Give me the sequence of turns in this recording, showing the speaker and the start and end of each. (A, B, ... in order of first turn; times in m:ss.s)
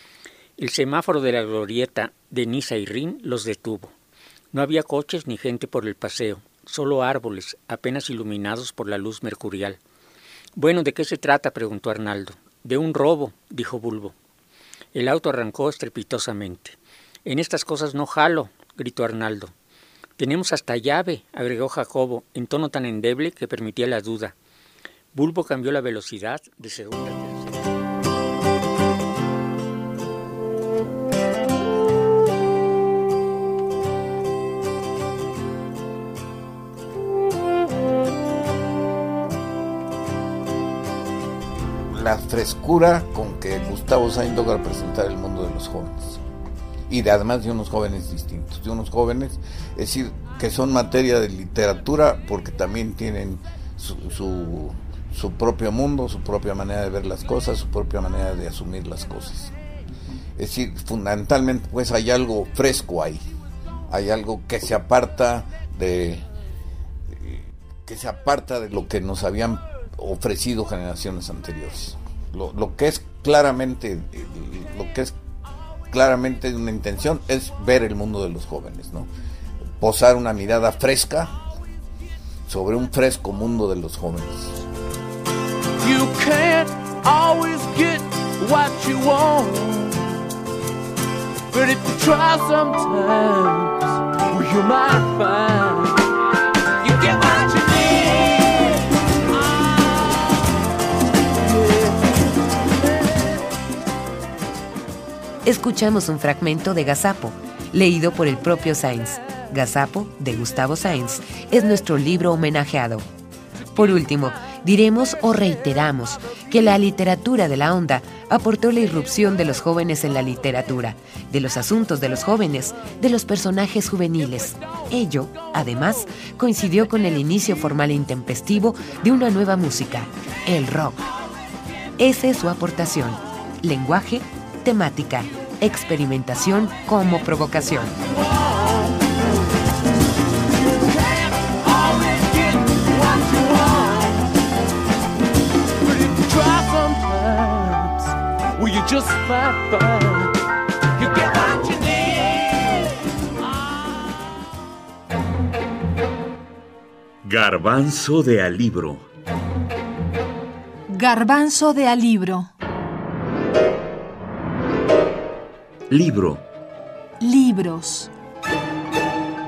0:00.6-0:03.9 A
0:04.5-0:09.8 A
0:10.6-0:14.1 A
0:14.9-0:19.5 A
0:20.2-0:24.3 A
0:25.1-0:27.7 A
0:41.9-0:46.2 B
0:46.9-0:59.5 B
1:00.4-1:03.2 B
1:03.9-1:06.2 B
1:07.1-1:15.1 B
1:15.9-1:19.1 B
1:19.8-1:21.4 B
1:22.4-1:24.7 B
1:25.9-1:30.2 C
1:31.5-1:36.1 C
1:36.8-1:38.8 C
1:45.4-1:53.0 D
1:53.7-2:11.1 D
2:12.0-2:17.9 D
2:18.4-2:19.1 C
2:20.8-2:24.3 C
2:25.8-2:30.3 C
2:31.0-2:33.0 C
2:37.2-2:39.1 E
2:40.9-2:42.5 F
2:45.9-2:46.5 E
2:47.2-2:48.1 F